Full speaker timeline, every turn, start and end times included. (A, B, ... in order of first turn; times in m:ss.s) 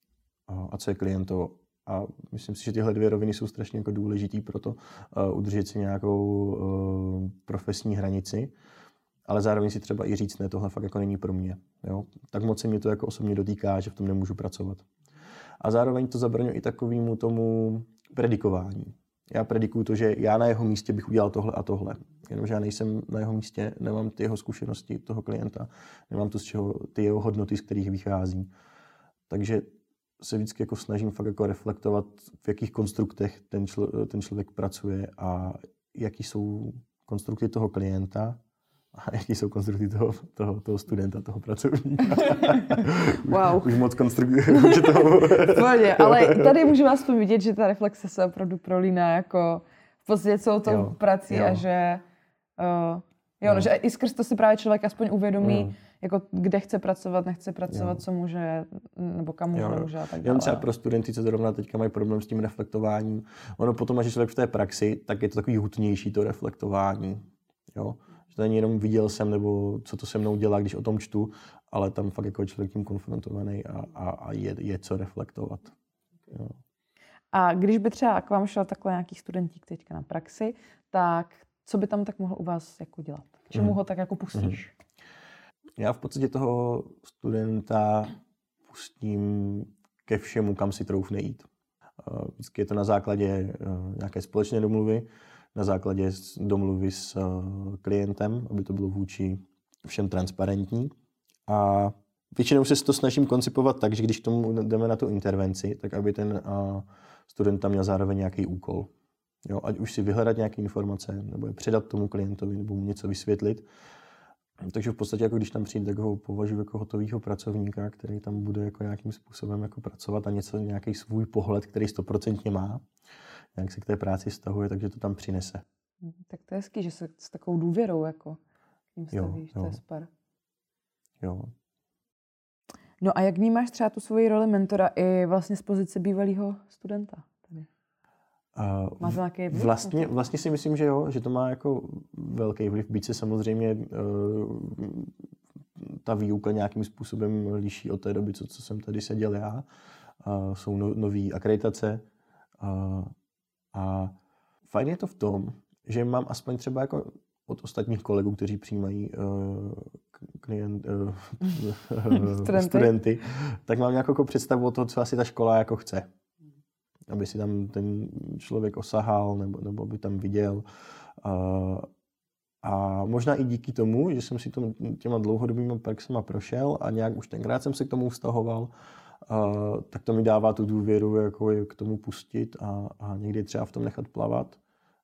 0:00.5-0:08.5 A
0:09.3-0:14.9 A
0:15.6-0:28.5 A
0:29.3-0:38.4 A
0:38.9-0:46.5 A
0:43.1-0:43.8 B
0:44.5-0:52.0 B
0:50.6-0:51.6 A
0:52.6-1:00.7 B
0:55.4-0:55.7 A
0:57.7-0:58.0 A
0:59.5-1:15.8 A
1:16.3-1:16.6 A
1:17.3-1:24.7 B
1:25.8-1:31.5 A
1:32.0-1:40.9 A
1:41.5-1:48.9 A
1:49.4-1:53.7 A
1:54.6-2:02.8 A
2:03.6-2:05.6 A
2:06.0-2:08.4 B
2:09.0-2:10.1 B
2:09.1-2:09.8 A
2:11.2-2:11.5 A
2:13.0-2:17.7 B
2:18.6-2:25.1 A
2:19.0-2:20.1 B
2:25.8-2:29.7 A
2:30.2-2:32.0 A
2:32.6-2:33.1 A
2:33.7-2:34.2 A
2:34.6-2:46.1 A
2:42.1-2:43.0 B
2:47.1-2:50.6 A
2:51.2-2:51.9 A
2:52.6-2:58.7 A
2:59.3-3:04.6 A